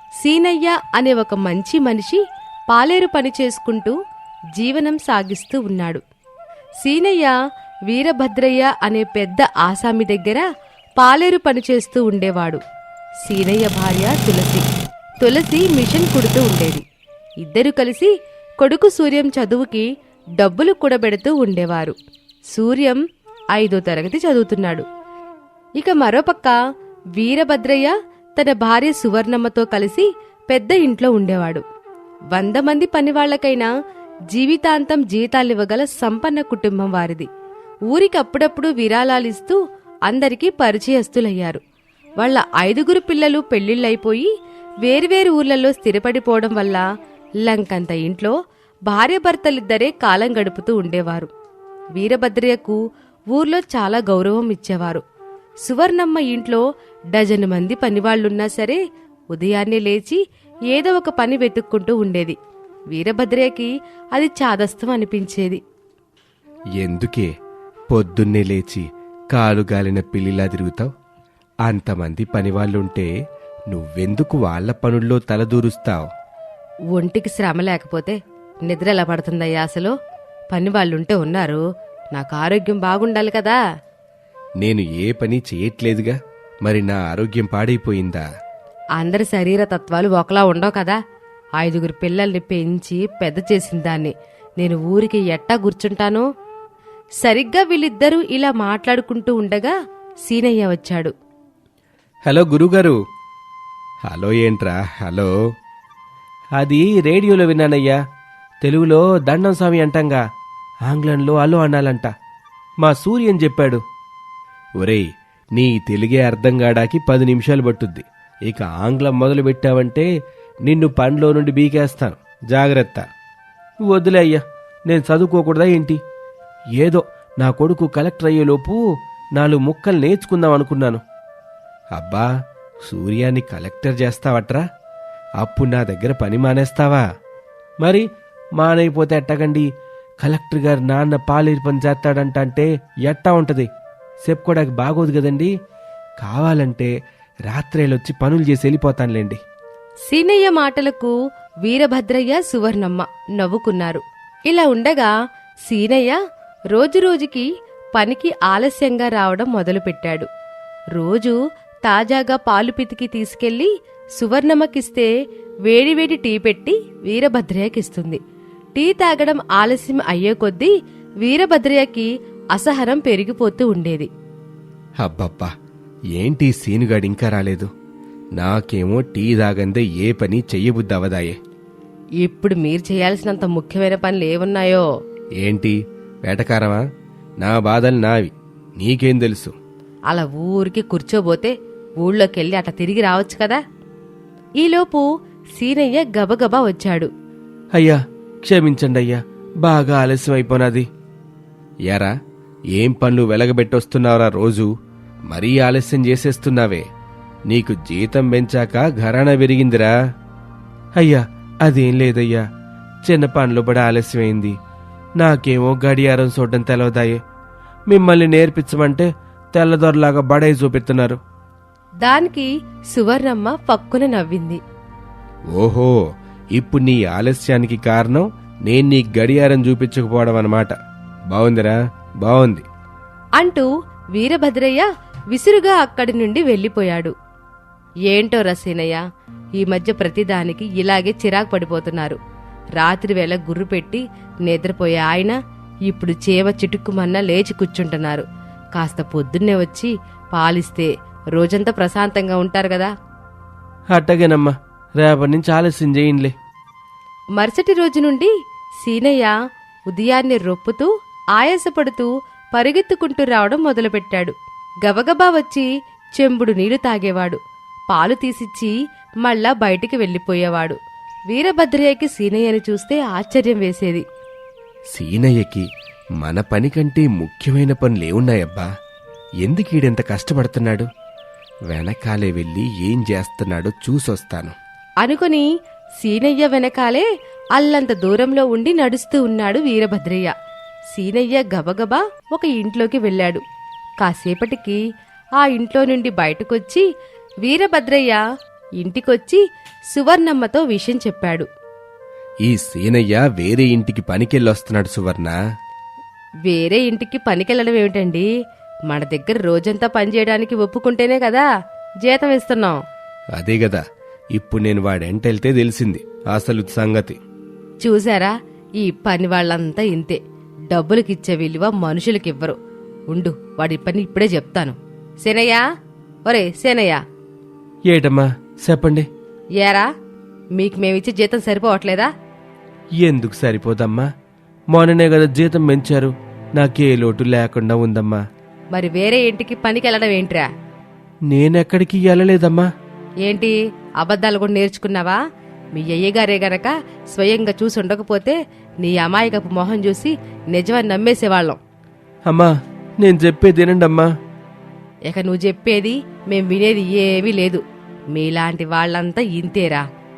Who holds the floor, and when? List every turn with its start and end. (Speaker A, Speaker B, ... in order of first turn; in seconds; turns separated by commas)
Speaker A: 0.2-4.0, Speaker A: 4.6-6.0, Speaker A: 6.8-7.3, Speaker A: 7.9-10.4, Speaker A: 11.0-12.6, Speaker A: 13.2-14.7, Speaker A: 15.2-16.8, Speaker A: 17.4-19.9, Speaker A: 20.4-21.9, Speaker A: 22.5-23.0, Speaker A: 23.5-24.9, Speaker A: 25.8-26.6, Speaker A: 27.2-31.6, Speaker A: 32.3-33.7, Speaker A: 34.3-37.3, Speaker A: 37.9-41.6, Speaker A: 42.2-44.3, Speaker A: 44.8-46.8, Speaker A: 47.4-48.3, Speaker A: 48.9-51.3, Speaker A: 52.0-52.8, Speaker A: 53.3-55.0, Speaker A: 55.6-56.6, Speaker A: 57.1-58.8, Speaker A: 59.3-60.2, Speaker A: 60.7-62.4, Speaker A: 62.9-65.6, Speaker B: 66.8-67.3, Speaker B: 67.9-70.9, Speaker B: 71.7-73.1, Speaker B: 73.7-76.1, Speaker A: 76.9-79.9, Speaker A: 80.5-81.6, Speaker A: 82.1-83.6, Speaker B: 84.6-88.2, Speaker A: 89.0-91.0, Speaker A: 91.6-96.2, Speaker A: 97.2-99.7, Speaker A: 100.2-101.1, Speaker B: 102.3-103.0, Speaker B: 104.1-105.3, Speaker B: 106.6-108.0, Speaker B: 108.6-110.2, Speaker B: 110.9-112.1, Speaker B: 112.8-113.8, Speaker B: 114.8-115.1, Speaker B: 115.6-120.1, Speaker B: 120.7-123.0, Speaker B: 123.9-126.0, Speaker B: 126.8-128.8, Speaker B: 129.4-131.0, Speaker B: 131.9-132.3, Speaker B: 132.9-134.6, Speaker B: 135.4-137.0, Speaker B: 138.6-139.7, Speaker B: 140.2-143.7, Speaker B: 144.2-145.5, Speaker B: 146.2-146.9, Speaker B: 147.5-149.4, Speaker A: 150.1-155.1, Speaker A: 155.7-156.2, Speaker A: 156.7-160.3, Speaker A: 161.0-165.1, Speaker A: 165.7-168.2, Speaker A: 168.8-170.7, Speaker A: 171.2-174.1, Speaker B: 175.0-175.5, Speaker B: 176.2-177.7, Speaker B: 178.4-181.4, Speaker A: 182.2-184.8, Speaker B: 185.4-186.8, Speaker B: 187.4-189.5, Speaker A: 190.1-193.6, Speaker A: 194.6-195.1, Speaker A: 195.6-197.1, Speaker B: 197.8-200.9, Speaker B: 202.8-204.7, Speaker B: 205.3-206.8, Speaker B: 207.5-209.9, Speaker B: 211.0-212.4, Speaker B: 213.1-214.5, Speaker B: 215.2-217.2, Speaker B: 217.9-221.2, Speaker A: 222.0-224.6, Speaker B: 225.5-226.0, Speaker B: 226.6-230.7, Speaker B: 231.3-232.7, Speaker A: 233.4-237.1, Speaker A: 238.1-239.0, Speaker A: 239.6-242.2, Speaker A: 242.8-245.4, Speaker A: 245.9-248.2, Speaker A: 248.8-252.9, Speaker B: 253.9-256.3, Speaker A: 257.4-259.3, Speaker A: 259.9-267.4, Speaker A: 267.9-268.7, Speaker A: 269.2-270.8, Speaker A: 271.3-274.0, Speaker B: 274.9-275.7, Speaker B: 276.2-278.7, Speaker B: 279.4-280.9, Speaker B: 281.7-284.6, Speaker A: 285.0-285.5, Speaker A: 286.0-290.3, Speaker A: 290.9-293.4, Speaker A: 294.0-294.8, Speaker A: 295.4-296.9, Speaker A: 297.4-298.2, Speaker A: 298.8-299.4, Speaker A: 299.9-301.5, Speaker B: 302.4-305.4, Speaker A: 306.5-308.3, Speaker A: 308.9-311.4, Speaker A: 312.0-312.8, Speaker B: 313.4-313.8, Speaker B: 314.4-317.2, Speaker A: 317.8-320.2, Speaker A: 320.7-322.6, Speaker A: 323.1-325.6, Speaker A: 326.3-327.0, Speaker B: 327.9-329.1, Speaker A: 329.6-329.9, Speaker A: 330.6-332.1, Speaker B: 333.0-334.1, Speaker B: 334.7-338.2, Speaker A: 338.7-340.5, Speaker B: 341.3-342.7, Speaker A: 343.2-345.2, Speaker A: 345.8-351.6, Speaker B: 353.0-354.1, Speaker A: 355.1-357.6, Speaker A: 358.1-359.8